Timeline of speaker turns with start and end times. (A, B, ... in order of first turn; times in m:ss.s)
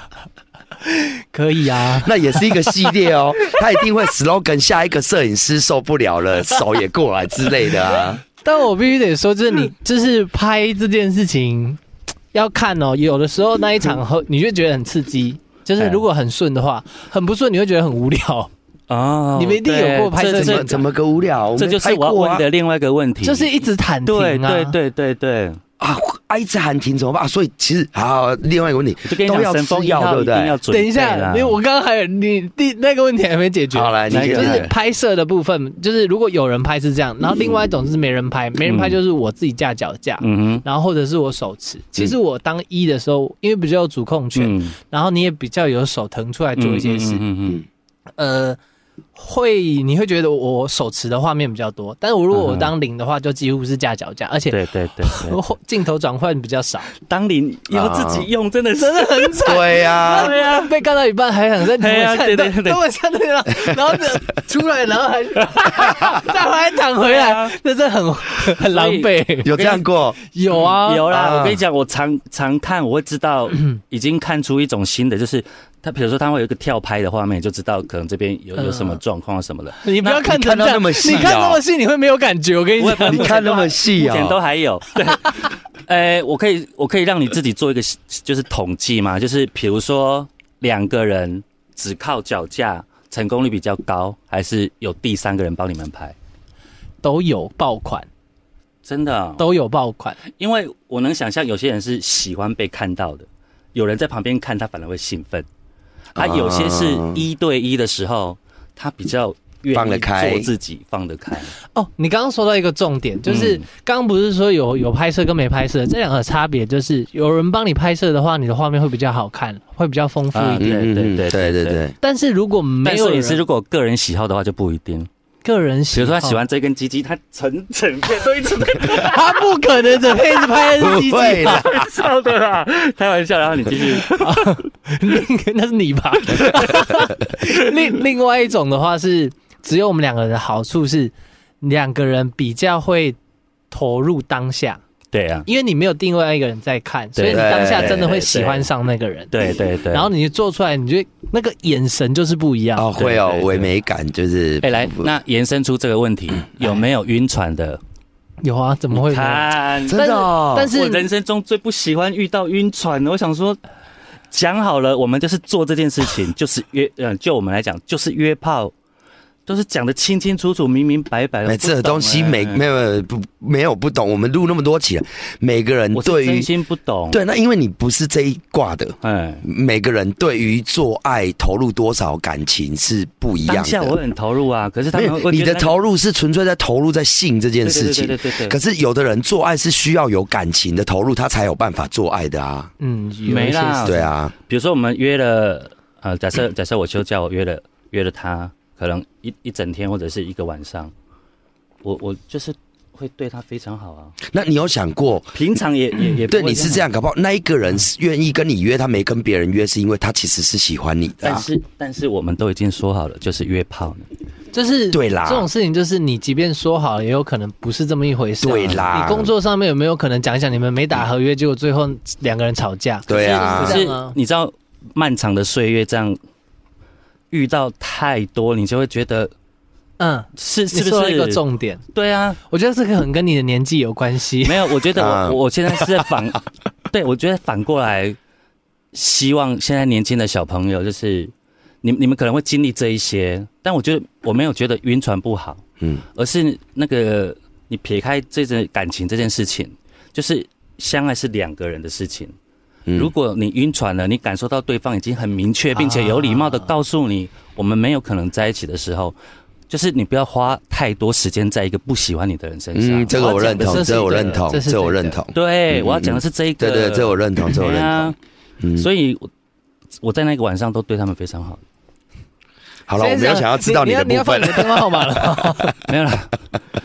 0:00.8-0:02.8 A
0:02.0-0:08.2 B
0:08.4-0:11.8 A
0:12.3-0:18.5 A
0:15.8-0:16.0 C
0:18.9-0:20.7 C
0:19.4-0:20.8 A
0:20.3-0:22.4 B
0:21.6-0:23.5 C
0:23.2-0:24.8 A
0:24.1-0:25.6 C
0:25.8-0:30.6 B
0:29.0-0:31.6 C
0:30.7-0:47.2 A
0:33.7-0:34.7 B
0:34.1-0:34.7 C
0:38.6-0:39.0 C
0:40.2-0:40.6 C
0:44.4-0:44.8 C
0:46.6-0:47.6 C
0:48.2-0:48.6 A
0:49.2-0:56.9 A
0:52.3-0:52.7 C
0:54.5-0:55.4 C
0:57.1-1:00.8 C
0:57.7-0:58.3 B
0:58.8-1:09.5 A
0:59.4-1:00.4 B
1:01.8-1:02.8 C
1:07.0-1:07.5 C
1:08.5-1:09.8 C
1:09.4-1:10.2 B
1:10.3-1:11.1 A
1:10.6-1:20.3 C
1:11.1-1:11.6 B
1:18.6-1:19.0 A
1:19.8-1:23.7 A
1:20.2-1:21.6 B
1:22.8-1:36.2 C
1:23.1-1:24.4 B
1:37.0-1:38.1 A
1:38.8-1:39.5 C
1:39.4-1:40.2 A
1:40.3-1:45.5 C
1:46.2-1:47.2 B
1:46.2-1:51.6 C
1:49.7-1:50.5 B
1:51.7-2:00.7 A
1:53.3-1:53.6 C
2:00.3-2:01.8 C
2:00.6-2:02.0 B
2:02.0-2:03.4 A
2:02.8-2:05.1 C
2:05.4-2:06.4 A
2:05.9-2:09.5 C
2:08.8-2:11.7 A
2:10.8-2:11.9 B
2:11.2-2:14.6 C
2:14.0-2:23.2 A
2:23.7-2:24.8 A
2:25.1-2:25.5 C
2:25.5-2:29.3 A
2:27.2-2:28.7 C
2:27.3-2:28.2 B
2:29.3-2:30.1 C
2:29.9-2:32.9 A
2:32.8-2:35.1 B
2:33.0-2:33.7 C
2:34.6-2:37.8 C
2:38.4-2:41.1 A
2:38.9-2:40.0 C
2:39.8-2:40.7 B
2:40.7-2:43.6 C
2:44.3-2:48.7 C
2:49.5-2:52.6 C
2:51.5-2:56.5 B
2:56.0-2:57.2 C
2:57.1-3:04.0 B
2:59.0-2:59.4 C
3:03.5-3:05.8 C
3:04.9-3:12.7 B
3:07.6-3:08.6 C
3:12.8-3:14.1 A
3:13.3-3:20.9 C
3:13.8-3:14.3 B
3:21.8-3:24.2 C
3:24.2-3:25.4 B
3:25.3-3:26.9 C
3:26.3-3:31.5 B
3:31.2-3:34.1 C
3:34.5-3:44.2 A
3:34.9-3:35.5 B
3:38.4-3:39.3 B
3:43.1-3:43.8 B
3:43.1-3:46.2 C
3:47.3-3:49.3 C
3:50.0-3:51.8 A
3:50.4-3:51.4 C
3:51.9-3:52.4 C
3:52.5-3:54.7 A
3:54.4-3:58.2 C
3:54.9-3:56.2 B
3:58.9-4:01.3 C
4:01.8-4:05.6 C
4:06.2-4:12.3 C
4:12.9-4:13.1 B
4:12.9-4:19.2 C
4:15.8-4:16.7 A
4:19.7-4:24.4 C
4:22.8-4:28.9 B
4:23.2-4:25.2 A
4:25.3-4:28.2 C
4:28.8-4:29.3 C
4:30.0-4:31.6 C
4:32.9-4:35.4 B
4:33.0-4:35.8 A
4:35.9-4:36.4 C